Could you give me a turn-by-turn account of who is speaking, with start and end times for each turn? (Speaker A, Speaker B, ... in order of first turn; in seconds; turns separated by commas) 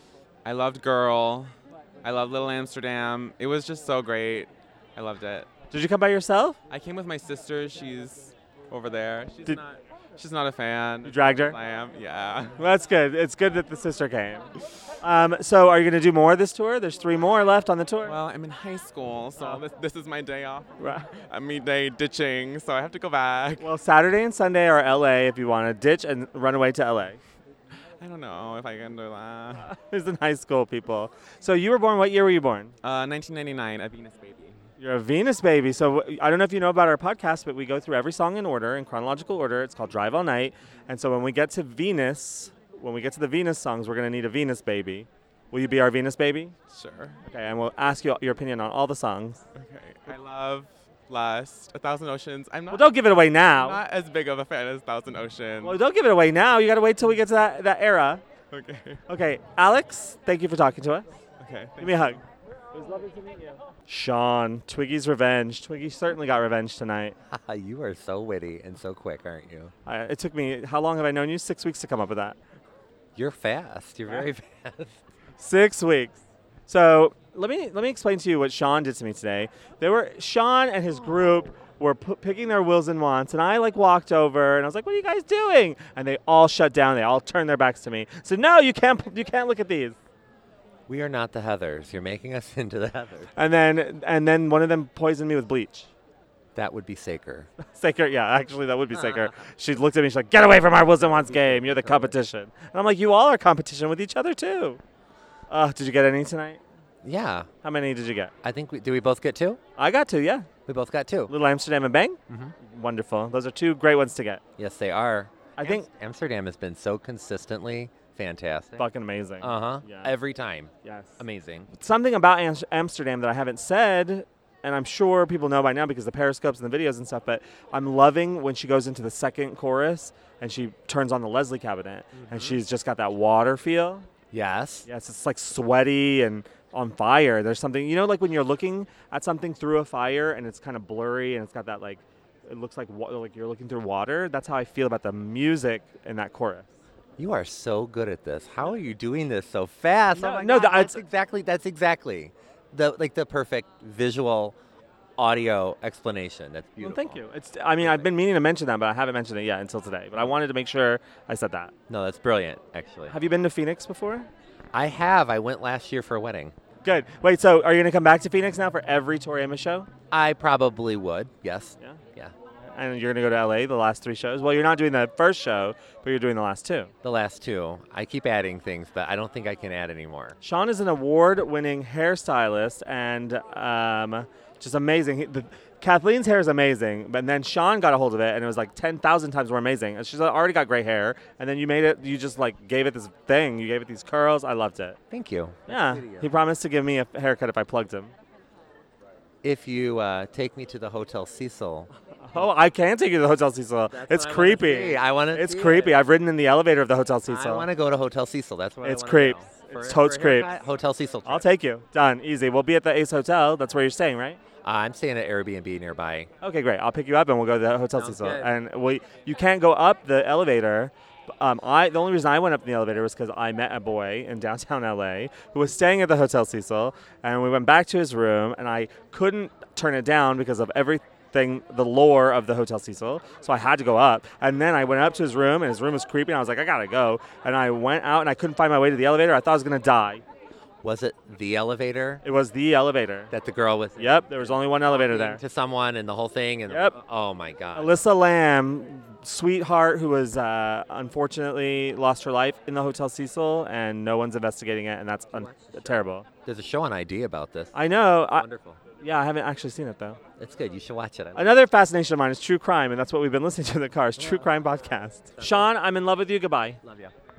Speaker A: 0.4-5.5, Speaker B: 5.7-6.6, Speaker A: 6.7-12.6, Speaker B: 11.0-11.6, Speaker B: 12.6-14.5, Speaker B: 15.0-18.1, Speaker A: 18.0-23.6, Speaker B: 20.8-21.1, Speaker B: 23.6-27.2, Speaker A: 28.0-29.7, Speaker B: 29.6-32.7, Speaker A: 32.8-34.6, Speaker B: 34.8-46.5, Speaker A: 46.7-47.2, Speaker B: 47.2-49.4, Speaker A: 49.5-52.9, Speaker B: 52.7-53.8, Speaker A: 53.5-55.8, Speaker B: 55.6-58.2, Speaker A: 58.5-59.0, Speaker B: 59.1-61.1, Speaker A: 61.4-62.2, Speaker B: 61.8-62.2, Speaker B: 62.7-67.1, Speaker C: 67.3-69.7, Speaker B: 69.8-72.4, Speaker C: 73.1-75.0, Speaker B: 75.4-90.0, Speaker C: 90.9-93.3, Speaker B: 93.3-95.9, Speaker C: 96.5-97.5, Speaker B: 97.7-104.8, Speaker C: 101.4-102.1, Speaker B: 105.5-106.6, Speaker C: 107.0-107.5, Speaker B: 107.6-108.3, Speaker C: 108.4-109.6, Speaker B: 109.8-110.5, Speaker C: 110.7-111.3, Speaker B: 111.3-114.4, Speaker C: 114.6-118.8, Speaker B: 115.6-115.8, Speaker B: 118.8-120.1, Speaker C: 119.4-121.7, Speaker B: 120.8-121.2, Speaker B: 121.7-134.1, Speaker C: 132.2-132.6, Speaker C: 134.3-134.9, Speaker B: 134.9-146.7, Speaker C: 147.2-154.6, Speaker B: 150.2-151.0, Speaker C: 155.2-157.2, Speaker B: 156.8-161.7, Speaker C: 161.9-163.1, Speaker B: 163.1-164.3, Speaker C: 164.7-166.5, Speaker B: 166.8-169.9, Speaker C: 170.1-172.3, Speaker B: 172.7-176.9, Speaker C: 177.0-180.4, Speaker B: 180.4-195.0, Speaker C: 195.1-196.3, Speaker B: 195.7-198.1, Speaker C: 199.4-201.9, Speaker B: 202.2-207.7, Speaker C: 203.9-206.0, Speaker C: 207.3-211.5, Speaker B: 208.8-210.5, Speaker B: 211.2-214.4, Speaker C: 214.6-216.3, Speaker B: 216.4-240.2, Speaker C: 218.0-218.5, Speaker C: 240.8-242.2, Speaker B: 242.2-243.3, Speaker C: 243.3-247.9, Speaker B: 244.0-245.4, Speaker B: 246.7-246.9, Speaker B: 247.7-256.2, Speaker C: 255.3-255.9, Speaker C: 256.4-257.8, Speaker B: 257.7-258.5, Speaker C: 258.3-258.8, Speaker B: 259.0-260.2, Speaker C: 260.4-261.6, Speaker B: 261.3-266.8, Speaker C: 265.4-265.6, Speaker C: 266.8-267.1